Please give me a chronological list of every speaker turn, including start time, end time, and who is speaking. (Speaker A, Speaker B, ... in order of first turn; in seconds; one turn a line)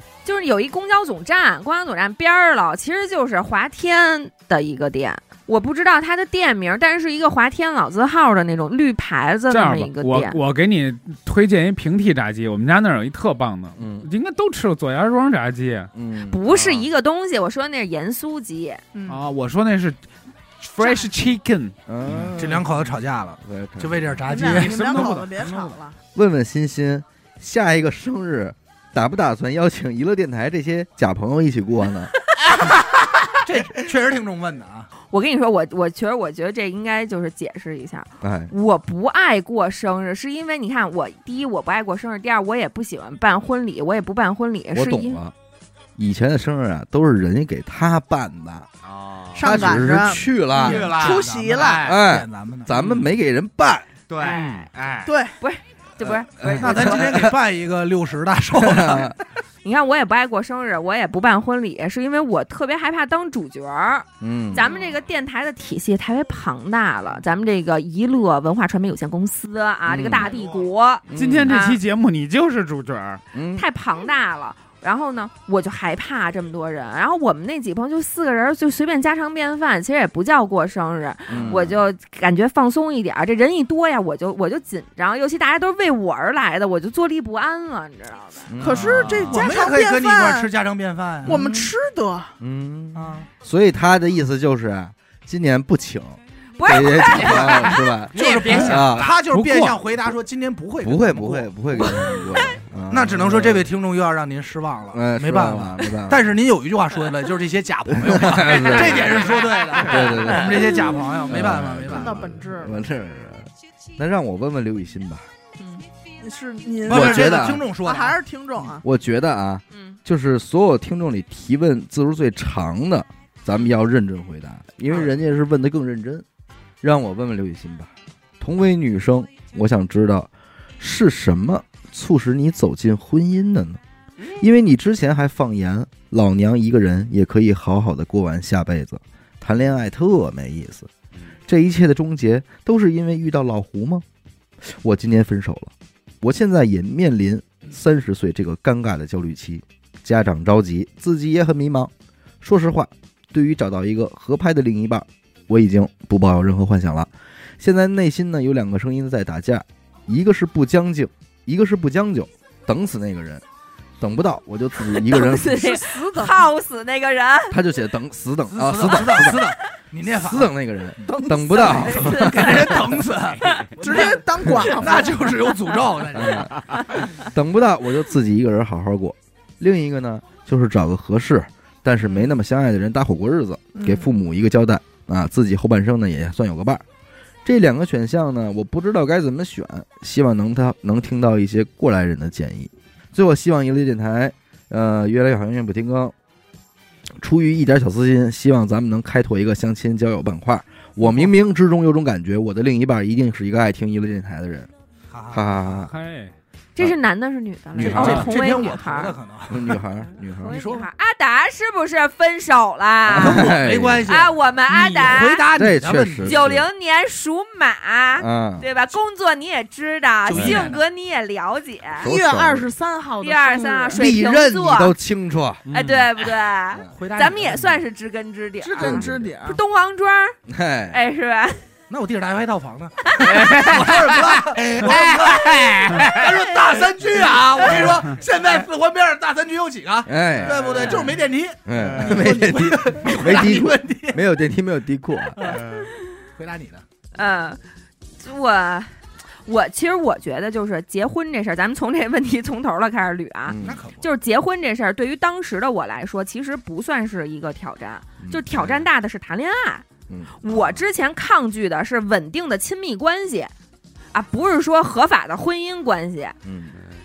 Speaker A: 0.2-10.4
Speaker B: 9.5-15.9
Speaker C: 13.8-14.1
Speaker C: 15.9-16.4
Speaker A: 16.3-18.8
Speaker B: 16.5-16.7
Speaker D: 18.9-19.2
Speaker B: 19.1-20.0
Speaker B: 20.6-21.7
Speaker D: 20.8-21.1
Speaker C: 21.9-22.7
Speaker E: 22.1-25.1
Speaker C: 23.4-24.1
Speaker D: 24.3-25.9
Speaker B: 24.4-25.8
Speaker C: 26.1-32.1
Speaker E: 33.4-34.9
Speaker A: 35.1-45.2
Speaker C: 38.2-38.5
Speaker C: 44.7-45.3
Speaker C: 46.0-48.7
Speaker F: 48.8-49.6
Speaker D: 49.3-51.8
Speaker C: 49.4-50.9
Speaker E: 50.6-52.7
Speaker F: 50.6-52.0
Speaker C: 51.8-53.9
Speaker F: 52.7-53.1
Speaker F: 54.1-55.1
Speaker A: 54.2-54.7
Speaker D: 55.0-55.3
Speaker A: 55.4-57.2
Speaker C: 56.1-57.4
Speaker E: 56.5-59.2
Speaker C: 58.6-59.1
Speaker A: 59.6-71.8
Speaker C: 64.2-64.7
Speaker C: 69.9-70.3
Speaker C: 71.1-71.5
Speaker B: 71.1-73.2
Speaker C: 73.3-73.6
Speaker A: 73.5-88.5
Speaker C: 81.3-81.8
Speaker C: 88.5-89.5
Speaker D: 88.6-90.5
Speaker E: 88.7-91.4
Speaker D: 91.2-92.3
Speaker A: 91.4-91.7
Speaker C: 92.4-99.1
Speaker E: 92.9-93.3
Speaker A: 96.6-97.8
Speaker F: 97.2-99.2
Speaker E: 98.1-102.1
Speaker B: 99.3-99.8
Speaker C: 100.8-103.7
Speaker E: 102.9-112.2
Speaker C: 104.9-106.2
Speaker C: 107.9-109.2
Speaker F: 108.5-110.2
Speaker C: 109.8-115.2
Speaker D: 111.9-112.8
Speaker A: 115.6-115.8
Speaker D: 116.2-118.8
Speaker E: 116.8-118.2
Speaker C: 116.9-117.6
Speaker C: 118.8-126.2
Speaker A: 119.7-120.0
Speaker C: 126.8-133.8
Speaker C: 134.4-140.9
Speaker C: 141.5-144.0
Speaker C: 144.6-151.9
Speaker C: 152.4-163.4
Speaker C: 164.0-165.7
Speaker A: 164.8-167.6
Speaker D: 165.5-166.4
Speaker C: 167.5-169.5
Speaker E: 168.5-170.5
Speaker C: 170.1-172.8
Speaker E: 171.1-176.5
Speaker D: 171.2-171.9
Speaker A: 171.9-172.8
Speaker A: 173.4-174.0
Speaker D: 173.8-175.2
Speaker C: 174.4-174.7
Speaker C: 176.1-186.8
Speaker D: 183.8-184.1
Speaker C: 187.4-196.1
Speaker C: 197.2-204.7
Speaker E: 205.1-205.6
Speaker C: 205.3-205.9
Speaker B: 205.7-206.3
Speaker A: 206.8-209.1
Speaker C: 207.8-208.3
Speaker E: 207.8-209.8
Speaker C: 209.5-210.6
Speaker A: 210.4-213.5
Speaker E: 210.4-210.9
Speaker C: 213.1-214.1
Speaker E: 213.1-216.5
Speaker A: 214.1-215.5
Speaker C: 215.5-216.6
Speaker A: 216.2-222.1
Speaker C: 218.2-218.6
Speaker E: 220.2-220.8
Speaker C: 220.3-220.7
Speaker C: 222.0-222.7
Speaker D: 222.0-224.1
Speaker A: 223.2-224.9
Speaker C: 223.9-225.6
Speaker B: 225.7-226.1
Speaker A: 225.7-230.4
Speaker E: 226.9-227.7
Speaker D: 228.6-229.6
Speaker C: 228.8-229.3
Speaker C: 230.5-231.0
Speaker A: 230.9-231.6
Speaker E: 231.9-244.2
Speaker A: 233.0-233.7
Speaker F: 233.2-236.3
Speaker C: 240.1-241.0
Speaker F: 240.4-240.9
Speaker C: 241.6-245.6
Speaker E: 245.3-245.8
Speaker E: 246.3-246.8
Speaker A: 247.1-247.6
Speaker A: 248.2-248.9
Speaker A: 249.4-259.8
Speaker C: 253.5-253.8
Speaker E: 253.6-254.1
Speaker C: 258.2-258.8
Speaker C: 260.1-260.3
Speaker A: 260.4-263.5
Speaker A: 264.1-266.4
Speaker C: 266.4-266.8